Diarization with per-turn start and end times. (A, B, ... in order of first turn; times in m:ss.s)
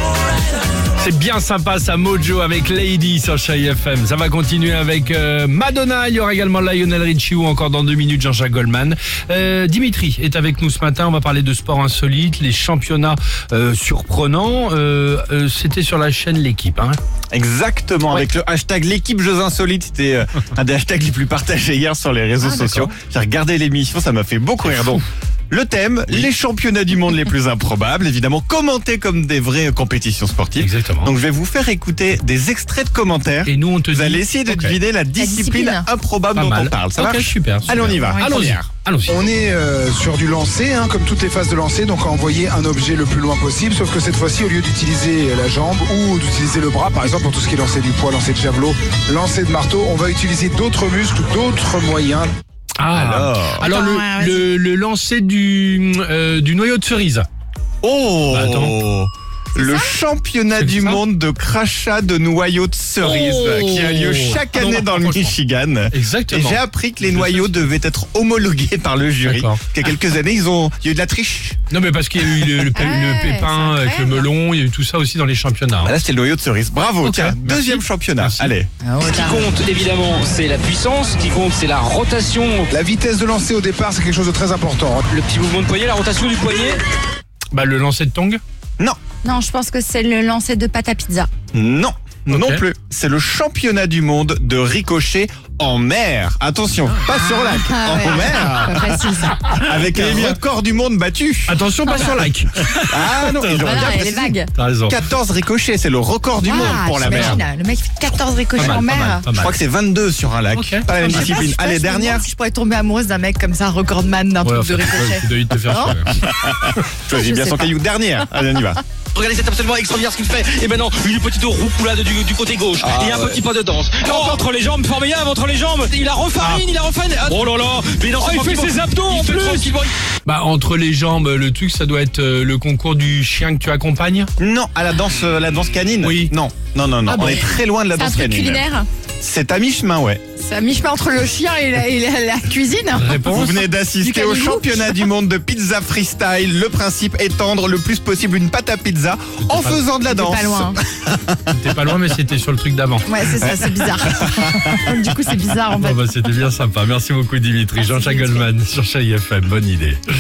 0:01.0-0:17.0 A
0:17.3-0:38.7 B
0:22.4-0:22.9 A
0:24.6-0:25.0 A
0:30.6-0:31.1 A
0:33.4-0:34.8 A
0:35.2-0:35.9 C
0:36.3-0:39.2 A
0:38.0-0:38.3 C
0:39.1-0:52.3 D
0:52.8-0:57.3 A
0:52.9-0:53.7 B
0:53.6-0:54.4 C
0:57.8-1:11.6 B
0:58.3-0:58.8 A
0:59.6-1:00.0 C
1:00.5-1:01.0 A
1:03.0-1:05.4 A
1:05.9-1:07.7 A
1:09.2-1:09.9 A
1:11.7-1:15.9 A
1:12.4-1:12.7 B
1:12.8-1:14.2 C
1:15.8-1:18.7 B
1:17.0-1:18.5 A
1:18.8-1:19.4 C
1:19.0-1:22.7 E
1:22.7-1:25.0 D
1:25.1-1:26.8 E
1:27.5-1:28.4 A
1:29.2-1:31.3 C
1:31.5-1:41.6 B
1:32.3-1:32.6 A
1:37.1-1:39.6 C
1:39.7-1:40.4 A
1:41.5-1:45.0 A
1:42.9-1:47.4 B
1:43.6-1:44.5 C
1:46.4-1:49.3 C
1:46.5-1:47.4 A
1:48.6-1:49.6 A
1:48.6-1:52.3 B
1:50.5-1:51.4 A
1:51.0-1:56.0 C
1:54.4-1:56.1 A
1:56.1-1:58.8 B
1:57.1-1:57.8 C
1:59.1-2:09.9 E
2:02.8-2:03.4 B
2:06.4-2:06.7 A
2:08.3-2:09.7 A
2:10.3-2:14.3 A
2:14.4-2:18.7 B
2:16.0-2:16.3 A
2:17.1-2:17.5 A
2:17.2-2:18.9 C
2:19.2-2:20.2 B
2:20.4-2:23.4 C
2:22.9-2:23.7 A
2:23.2-2:31.5 B
2:24.0-2:25.0 C
2:29.4-2:29.9 A
2:30.1-2:30.8 C
2:31.5-2:33.1 A
2:33.1-2:36.1 C
2:33.3-2:35.0 B
2:35.8-2:40.0 A
2:37.8-2:38.4 C